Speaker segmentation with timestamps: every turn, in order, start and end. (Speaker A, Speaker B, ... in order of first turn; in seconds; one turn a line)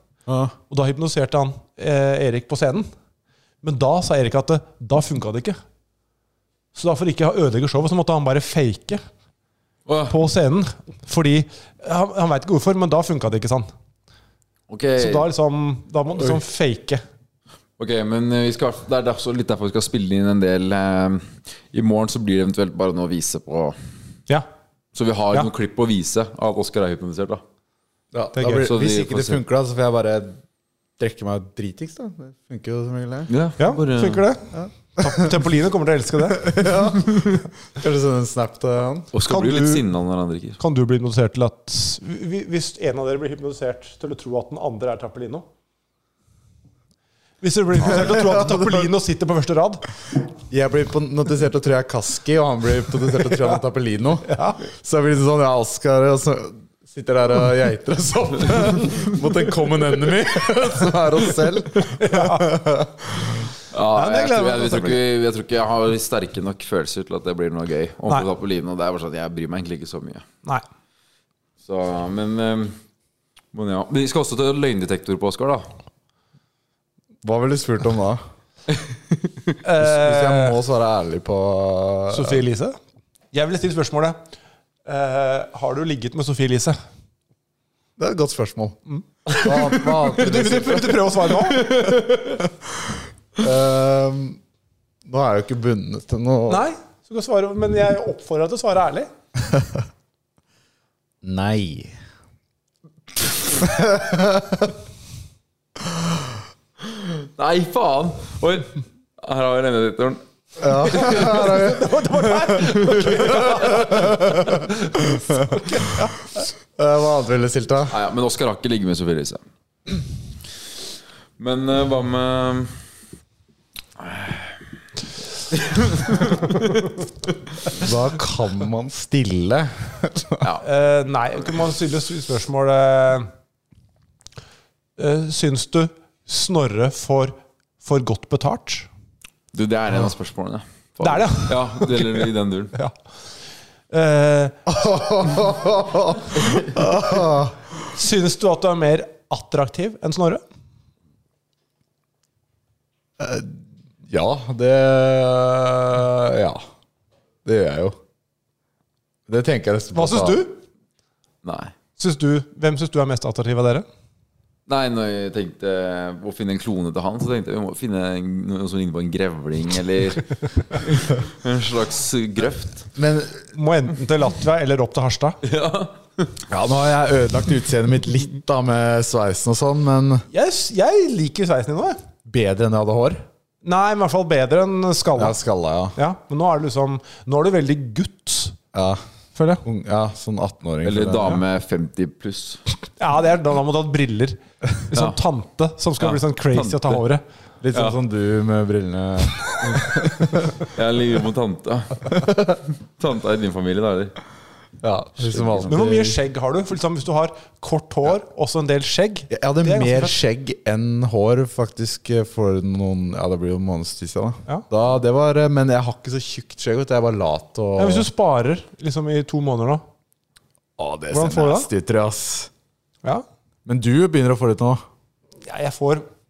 Speaker A: 0.3-0.5
Speaker B: 0.7-2.9
Speaker B: 3.6-5.6
Speaker B: 6.8-9.0
Speaker C: 9.9-10.2
Speaker B: 10.1-13.7
Speaker C: 14.7-15.3
Speaker B: 15.0-17.0
Speaker C: 17.8-23.8
Speaker C: 24.9-27.4
Speaker A: 28.1-30.4
Speaker B: 28.4-28.7
Speaker C: 28.5-29.4
Speaker A: 31.0-33.3
Speaker C: 33.3-34.2
Speaker B: 33.6-36.7
Speaker A: 34.5-35.3
Speaker A: 36.4-39.1
Speaker C: 39.1-40.6
Speaker B: 39.3-39.9
Speaker B: 40.6-45.5
Speaker B: 47.4-49.8
Speaker A: 50.5-63.2
Speaker B: 54.3-54.6
Speaker B: 61.8-62.5
Speaker C: 63.7-70.2
Speaker B: 64.0-65.0
Speaker C: 71.6-72.8
Speaker C: 73.5-75.7
Speaker A: 77.2-78.2
Speaker B: 79.6-80.6
Speaker A: 79.8-82.4
Speaker B: 82.1-82.8
Speaker B: 83.3-84.2
Speaker B: 84.9-86.8
Speaker A: 88.0-88.8
Speaker B: 88.9-91.8
Speaker A: 89.3-91.1
Speaker C: 91.5-92.4
Speaker A: 93.4-94.4
Speaker A: 95.1-96.6
Speaker B: 96.5-99.1
Speaker A: 101.2-102.0
Speaker A: 103.6-104.7
Speaker C: 107.0-108.7
Speaker C: 109.2-110.2
Speaker A: 110.6-114.5
Speaker C: 110.9-111.5
Speaker B: 111.0-116.2
Speaker C: 112.6-113.7
Speaker A: 116.8-118.0
Speaker C: 117.9-119.4
Speaker C: 121.4-122.8
Speaker C: 124.0-124.5
Speaker C: 125.5-126.8
Speaker A: 127.7-130.4
Speaker B: 130.6-133.3
Speaker B: 135.0-138.9
Speaker C: 139.5-142.8
Speaker B: 141.0-142.9
Speaker B: 143.9-144.6
Speaker A: 144.7-147.6
Speaker B: 147.9-150.4
Speaker A: 153.2-156.6
Speaker A: 157.4-157.9
Speaker A: 159.3-160.4
Speaker B: 159.9-160.6
Speaker C: 161.4-161.7
Speaker B: 162.0-163.9
Speaker C: 164.7-172.9
Speaker A: 173.0-173.5
Speaker B: 173.5-175.4
Speaker C: 175.4-176.3
Speaker A: 176.5-180.3
Speaker B: 180.3-182.0
Speaker A: 182.3-183.2
Speaker B: 183.6-185.4
Speaker A: 185.2-186.0
Speaker B: 186.0-188.6
Speaker A: 188.7-189.0
Speaker B: 189.3-189.6
Speaker A: 189.6-191.4
Speaker C: 190.8-192.6
Speaker B: 193.0-197.2
Speaker C: 196.0-197.0
Speaker A: 197.6-200.5
Speaker C: 200.6-204.1
Speaker A: 204.8-206.2
Speaker C: 205.2-205.7
Speaker B: 205.7-210.1
Speaker A: 209.3-218.1
Speaker B: 217.8-219.8
Speaker A: 220.8-222.5
Speaker B: 221.1-221.7
Speaker A: 223.7-224.8
Speaker B: 225.4-226.1